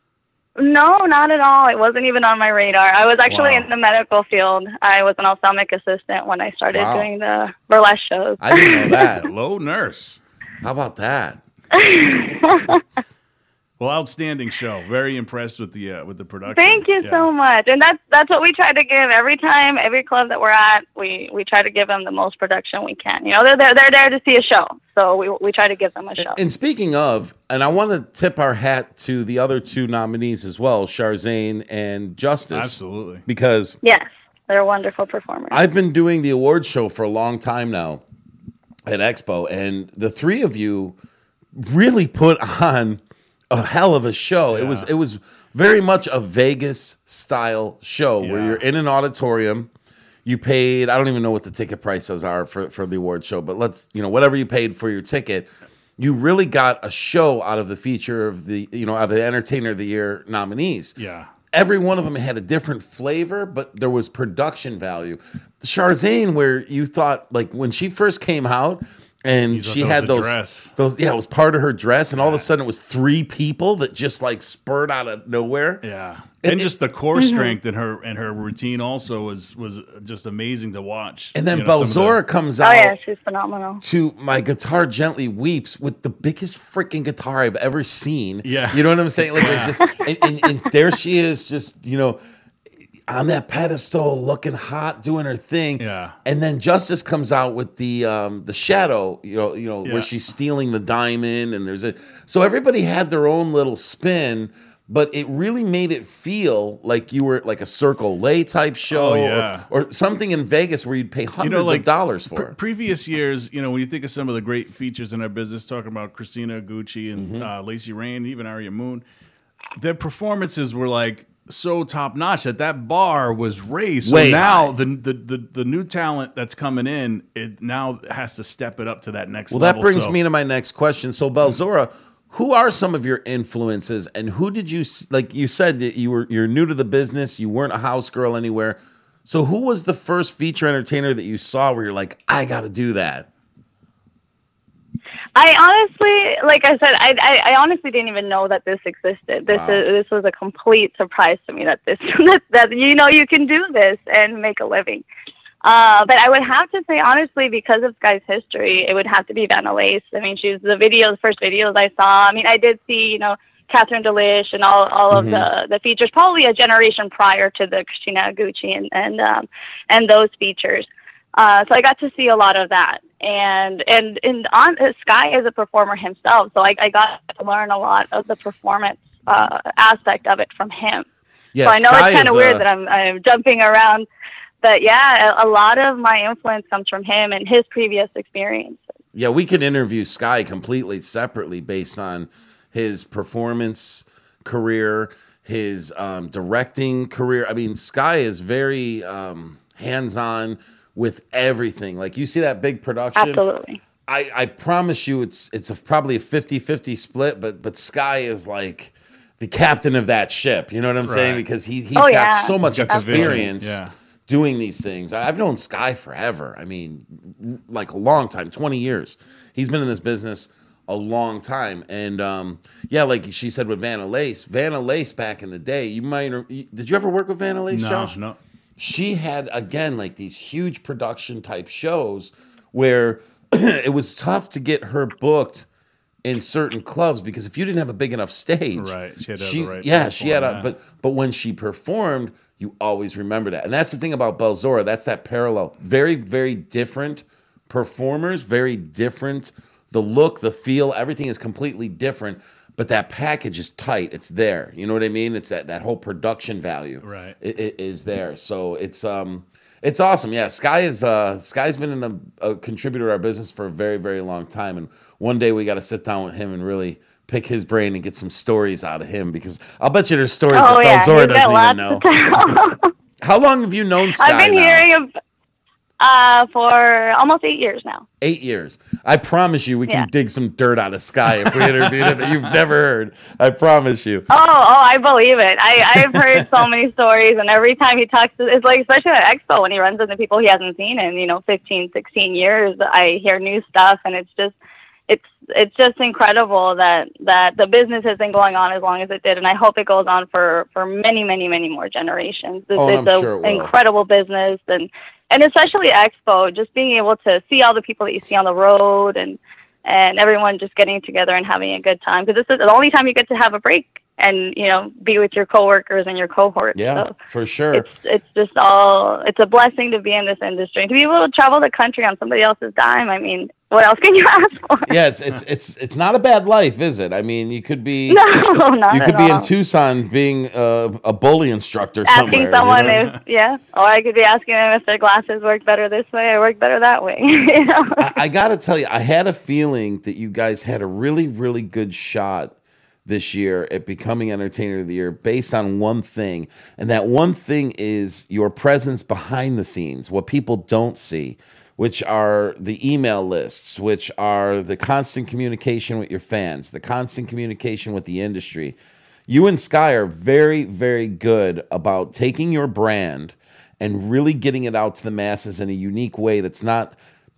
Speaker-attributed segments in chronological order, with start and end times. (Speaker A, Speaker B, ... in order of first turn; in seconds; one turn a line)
Speaker A: 0.6-9.1
Speaker B: 3.3-3.7
Speaker C: 6.7-7.1
Speaker C: 8.4-9.3
Speaker B: 9.0-10.2
Speaker C: 10.6-11.4
Speaker A: 11.7-12.8
Speaker B: 13.8-17.3
Speaker A: 16.5-26.4
Speaker C: 26.2-33.8
Speaker B: 32.5-33.2
Speaker A: 33.8-35.6
Speaker C: 35.5-38.0
Speaker C: 38.9-41.0
Speaker C: 41.5-43.0
Speaker C: 43.5-49.7
Speaker B: 44.5-44.9
Speaker B: 48.2-48.6
Speaker C: 50.2-61.0
Speaker B: 61.0-61.3
Speaker C: 61.5-75.8
Speaker B: 69.5-70.7
Speaker B: 72.2-72.5
Speaker B: 75.8-82.2
Speaker C: 76.4-76.7
Speaker A: 77.1-77.6
Speaker C: 81.3-82.9
Speaker A: 82.6-83.8
Speaker C: 83.8-92.2
Speaker B: 88.4-89.8
Speaker C: 93.1-112.5
Speaker B: 95.8-96.1
Speaker B: 99.8-100.1
Speaker B: 108.9-109.7
Speaker B: 111.4-119.0
Speaker C: 117.2-117.5
Speaker B: 119.8-130.2
Speaker C: 124.0-124.7
Speaker C: 129.5-143.3
Speaker A: 145.3-155.0
Speaker C: 149.5-149.8
Speaker A: 155.6-181.1
Speaker C: 165.1-165.5
Speaker C: 181.5-182.6
Speaker A: 181.6-184.1
Speaker A: 184.6-188.8
Speaker C: 189.1-203.4
Speaker A: 203.2-203.8
Speaker C: 204.1-228.1
Speaker B: 211.1-211.4
Speaker A: 211.9-213.5
Speaker B: 212.6-213.9
Speaker B: 227.7-228.4
Speaker C: 228.8-235.7
Speaker C: 236.2-272.0
Speaker B: 238.8-240.7
Speaker B: 257.0-257.4
Speaker A: 270.5-272.9
Speaker C: 273.2-274.8
Speaker A: 274.2-275.1
Speaker A: 276.0-278.0
Speaker C: 278.2-284.2
Speaker B: 282.0-282.3
Speaker A: 284.3-294.5
Speaker A: 295.1-317.1
Speaker C: 302.7-303.7
Speaker C: 316.7-317.9
Speaker A: 317.7-324.9
Speaker C: 324.9-328.2
Speaker A: 328.1-329.5
Speaker C: 328.9-333.0
Speaker A: 332.1-338.0
Speaker B: 332.2-333.1
Speaker C: 338.0-342.5
Speaker C: 343.1-358.7
Speaker C: 359.3-366.9